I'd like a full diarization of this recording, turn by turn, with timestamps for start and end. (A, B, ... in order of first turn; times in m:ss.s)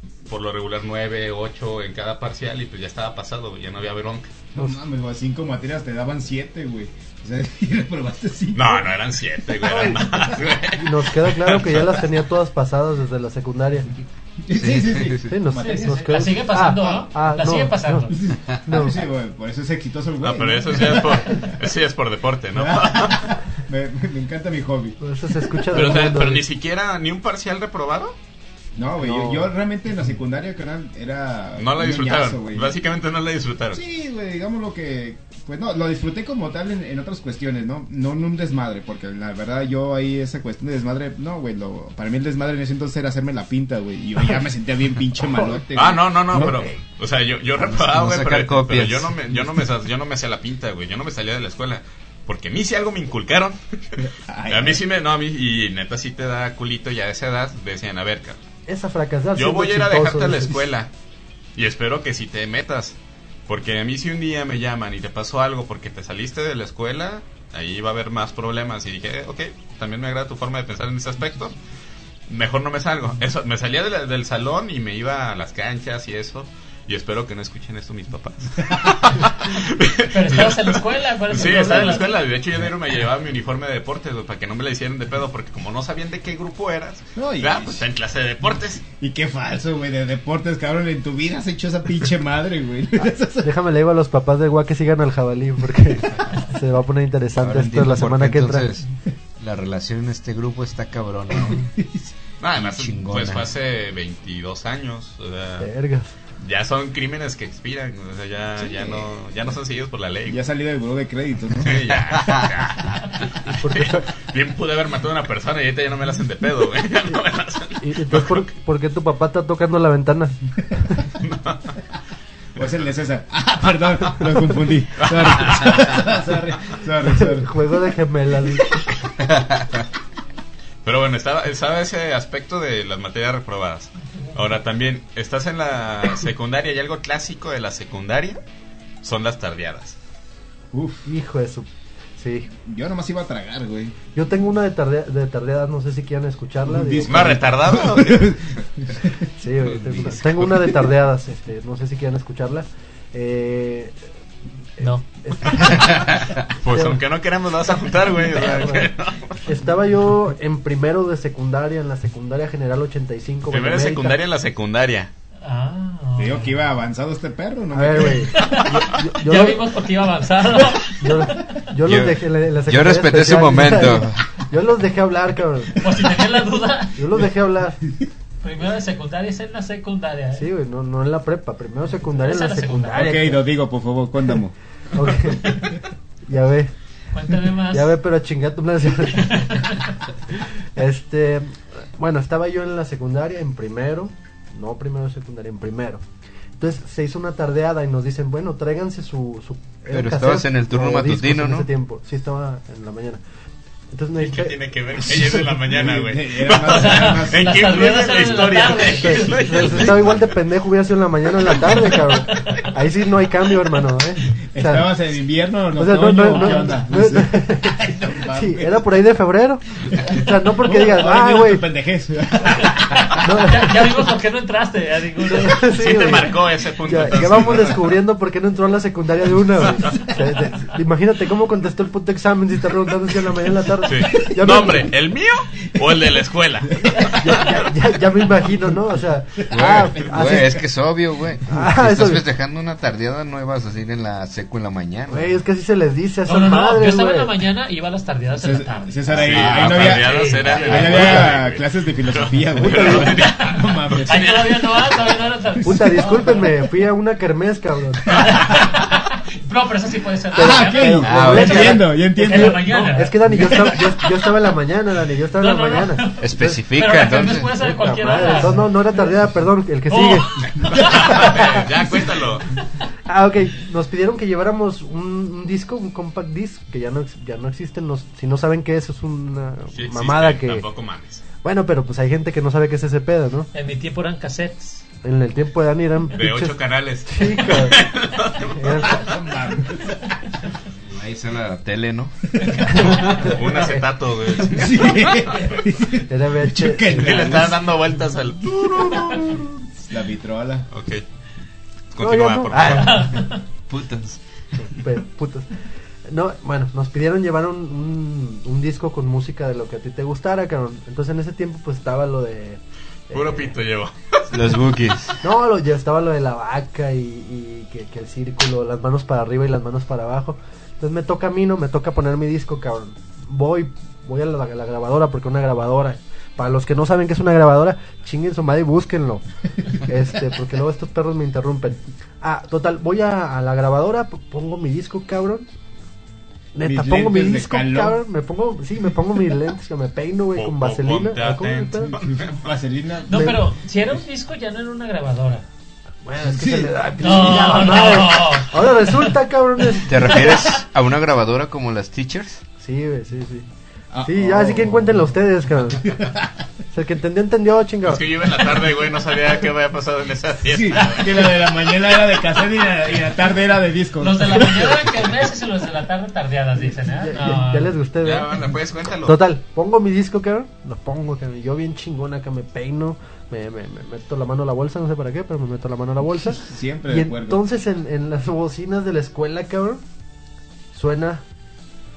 0:00.3-0:04.3 A
0:04.6-0:08.9 B
0:08.5-0:12.0 A
0:09.9-0:10.4 B
0:10.7-0:14.0 C
0:14.4-0:16.2 B
0:14.5-0:15.4 D
0:15.3-0:19.0 C
0:15.6-0:18.3 E
0:18.1-0:21.4 B
0:20.2-0:23.3 A
0:22.5-0:25.0 B
0:25.0-0:26.4 C
0:25.7-0:28.2 A
0:28.8-0:32.8 B
0:29.0-0:29.5 C
0:31.6-0:33.8 A
0:33.7-0:46.6 B
0:45.7-0:58.4 A
0:47.7-0:49.5 D
0:54.0-0:54.8 B
0:58.7-1:00.6 C
0:59.4-1:00.9 A
1:01.6-1:03.0 A
1:03.5-1:11.6 A
1:12.3-1:28.8 A
1:20.1-1:22.2 E
1:27.2-1:27.8 B
1:29.0-1:33.5 B
1:33.4-1:38.7 C
1:37.4-1:38.9 D
1:39.4-1:41.6 D
1:41.6-1:42.1 B
1:42.4-1:45.7 A
1:42.6-1:43.5 D
1:45.6-1:46.1 C
1:46.4-1:50.4 A
1:48.6-1:49.1 B
1:50.3-1:52.0 B
1:51.6-1:58.4 A
1:53.5-1:54.1 C
1:57.8-2:01.0 C
2:01.2-2:01.8 A
2:02.6-2:07.6 B
2:05.0-2:06.0 A
2:07.1-2:08.8 C
2:10.8-2:18.4 A
2:19.0-2:20.0 A
2:20.7-2:21.1 B
2:21.1-2:22.5 C
2:22.6-2:24.0 B
2:24.2-2:27.4 C
2:26.6-2:29.3 B
2:27.1-2:28.4 A
2:29.4-2:34.0 C
2:34.8-2:37.0 C
2:34.8-2:35.1 E
2:35.7-2:39.4 A
2:38.3-2:38.9 C
2:39.4-2:44.2 C
2:43.5-2:45.1 A
2:45.4-2:46.6 E
2:46.2-2:48.5 B
2:47.7-2:49.7 C
2:48.3-2:51.6 E
2:51.0-2:55.8 C
2:51.8-2:54.3 D
2:55.8-2:57.0 E
2:57.0-2:57.8 C
2:58.4-3:00.5 E
3:00.4-3:03.5 C
3:02.0-3:03.2 E
3:03.0-3:04.5 B
3:05.0-3:05.7 C
3:06.3-3:06.7 C
3:07.1-3:08.0 E
3:07.7-3:09.6 C
3:09.1-3:10.0 E
3:10.8-3:16.0 C
3:16.6-3:23.2 C
3:19.9-3:21.7 D
3:23.9-3:24.6 C
3:24.2-3:30.3 A
3:25.1-3:27.6 B
3:26.6-3:29.9 E
3:28.9-3:34.9 C
3:31.7-3:32.8 E
3:34.5-3:38.8 B
3:35.8-3:41.7 C
3:36.3-3:36.7 E
3:40.0-3:43.2 B
3:43.2-3:43.9 C
3:43.2-3:45.8 E
3:45.3-3:54.9 C
3:45.6-3:47.8 A
3:53.8-3:57.6 A
3:57.1-4:00.6 C
3:59.4-4:00.6 B
3:59.5-4:05.3 D
4:01.5-4:02.2 C
4:05.1-4:07.3 C
4:06.2-4:11.4 E
4:08.3-4:14.4 B
4:09.1-4:14.9 A
4:09.4-4:10.0 D
4:12.6-4:13.2 C
4:13.0-4:16.7 E
4:15.6-4:18.2 C
4:18.1-4:24.3 E
4:18.2-4:18.7 B
4:20.3-4:26.6 C
4:20.4-4:22.6 B
4:21.0-4:21.8 D
4:25.4-4:28.8 E
4:26.2-4:27.5 D
4:27.5-4:31.5 C
4:29.9-4:31.6 E
4:30.7-4:32.5 A
4:33.1-4:40.6 C
4:39.8-4:41.2 A
4:41.4-4:43.5 C
4:43.5-4:44.8 E
4:45.0-4:47.9 C
4:46.1-4:49.1 A
4:48.4-4:49.1 C
4:48.9-4:50.0 B
4:50.8-4:53.4 D
4:52.6-4:53.3 E
4:52.7-4:55.5 A
4:53.1-4:53.4 C
4:54.5-4:57.8 B
4:56.1-4:57.3 C
4:56.9-4:59.5 A
4:58.6-5:00.7 B
5:00.7-5:01.0 A
5:01.9-5:03.1 A
5:02.0-5:03.3 C
5:02.6-5:03.4 E
5:03.7-5:04.2 D
5:04.6-5:05.5 C
5:06.1-5:13.5 C
5:13.1-5:14.5 A
5:14.3-5:15.2 D
5:15.2-5:35.5 C
5:36.6-5:41.9 C
5:36.6-5:38.0 B
5:40.4-5:42.4 A
5:41.9-5:43.4 B
5:43.1-5:45.5 E
5:43.1-5:43.4 C
5:46.0-5:50.5 C
5:46.2-5:47.6 B
5:47.0-5:49.0 E
5:49.9-5:52.4 D
5:52.6-5:53.5 C
5:53.9-5:55.1 B
5:54.0-5:55.9 C
5:55.8-5:56.3 B
5:56.7-5:58.0 C
5:57.9-6:01.3 A
6:00.4-6:04.9 B
6:00.8-6:01.0 E
6:04.0-6:07.8 E
6:07.0-6:08.4 C
6:08.0-6:09.2 A
6:09.0-6:19.8 C
6:16.3-6:17.4 B
6:20.7-6:21.2 C